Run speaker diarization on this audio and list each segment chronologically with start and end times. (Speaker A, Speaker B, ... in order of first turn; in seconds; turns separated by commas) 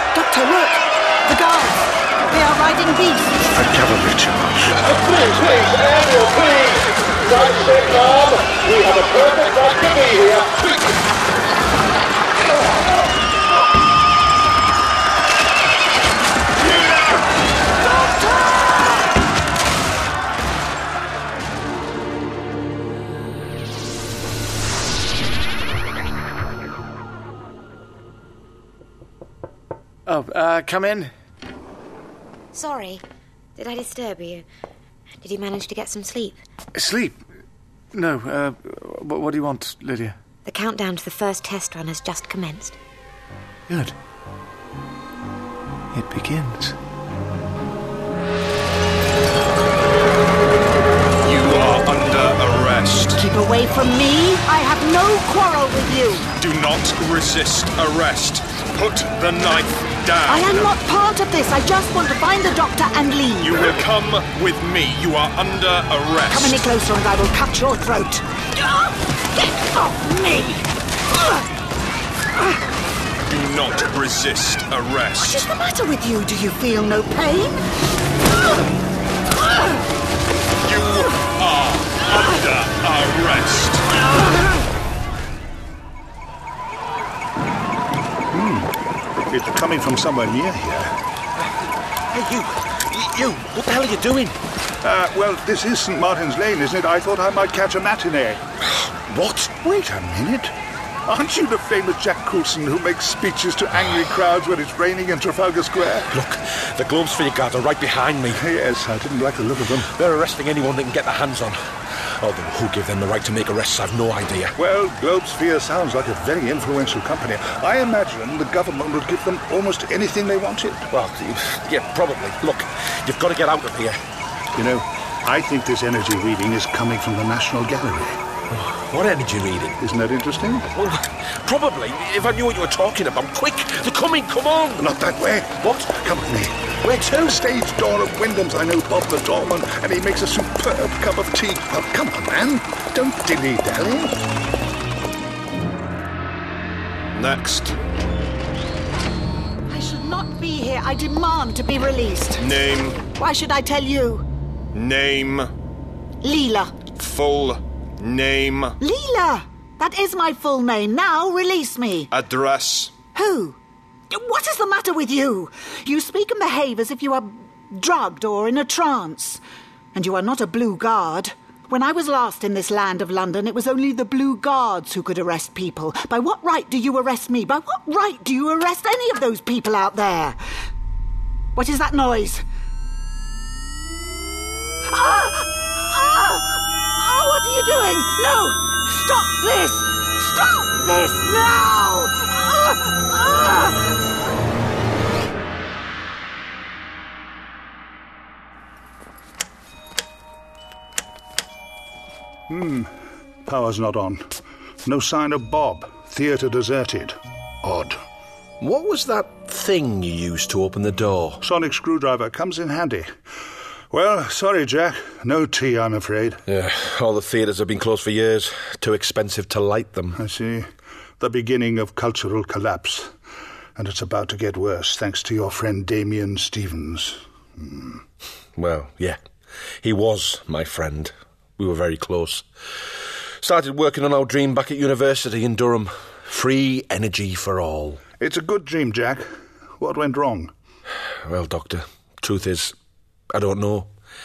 Speaker A: 0.1-3.4, Speaker B: 3.5-4.7, Speaker C: 3.6-4.2, Speaker D: 4.8-11.0, Speaker E: 30.1-31.1, Speaker F: 32.5-33.0, Speaker F: 33.5-34.5, Speaker F: 35.2-36.4, Speaker E: 36.8-37.2, Speaker E: 37.9-40.2, Speaker F: 40.4-42.8, Speaker E: 43.7-43.9, Speaker E: 45.9-46.8, Speaker G: 51.2-53.2, Speaker A: 53.1-56.3, Speaker G: 56.4-60.8, Speaker A: 60.3-63.8, Speaker G: 63.4-66.7, Speaker A: 66.3-71.5, Speaker G: 73.3-75.5, Speaker A: 75.2-77.6, Speaker A: 79.4-79.8, Speaker G: 80.6-83.9, Speaker A: 84.1-84.5, Speaker B: 88.3-88.7, Speaker B: 89.3-91.0, Speaker C: 92.1-94.4, Speaker B: 94.8-98.4, Speaker C: 98.8-99.5, Speaker B: 99.6-100.5, Speaker B: 101.0-106.1, Speaker C: 106.1-108.4, Speaker B: 108.3-109.9, Speaker C: 109.9-111.6, Speaker C: 112.2-114.5, Speaker B: 114.6-120.9, Speaker C: 120.9-124.0, Speaker B: 124.5-128.2, Speaker C: 128.5-129.8, Speaker B: 129.8-130.7, Speaker C: 130.7-134.9, Speaker B: 134.8-144.2, Speaker G: 147.1-147.8, Speaker A: 149.7-152.5, Speaker G: 152.4-153.1, Speaker A: 153.1-154.2, Speaker G: 154.7-155.5, Speaker A: 156.2-156.9, Speaker G: 156.9-158.8, Speaker A: 158.8-162.1, Speaker G: 162.1-162.9, Speaker A: 163.1-163.6, Speaker A: 164.1-169.4, Speaker A: 169.9-180.4, Speaker A: 181.6-182.4, Speaker A: 184.9-194.0, Speaker B: 202.5-202.9, Speaker B: 203.4-204.2, Speaker B: 204.8-208.0, Speaker C: 208.6-211.4, Speaker B: 211.4-213.1, Speaker B: 213.9-216.4, Speaker C: 216.5-220.2, Speaker B: 220.1-220.7, Speaker B: 221.2-223.1, Speaker B: 223.8-228.0, Speaker C: 228.6-229.2, Speaker C: 229.8-232.4, Speaker C: 233.4-238.0, Speaker B: 238.2-240.5, Speaker C: 241.2-242.7, Speaker C: 243.3-243.9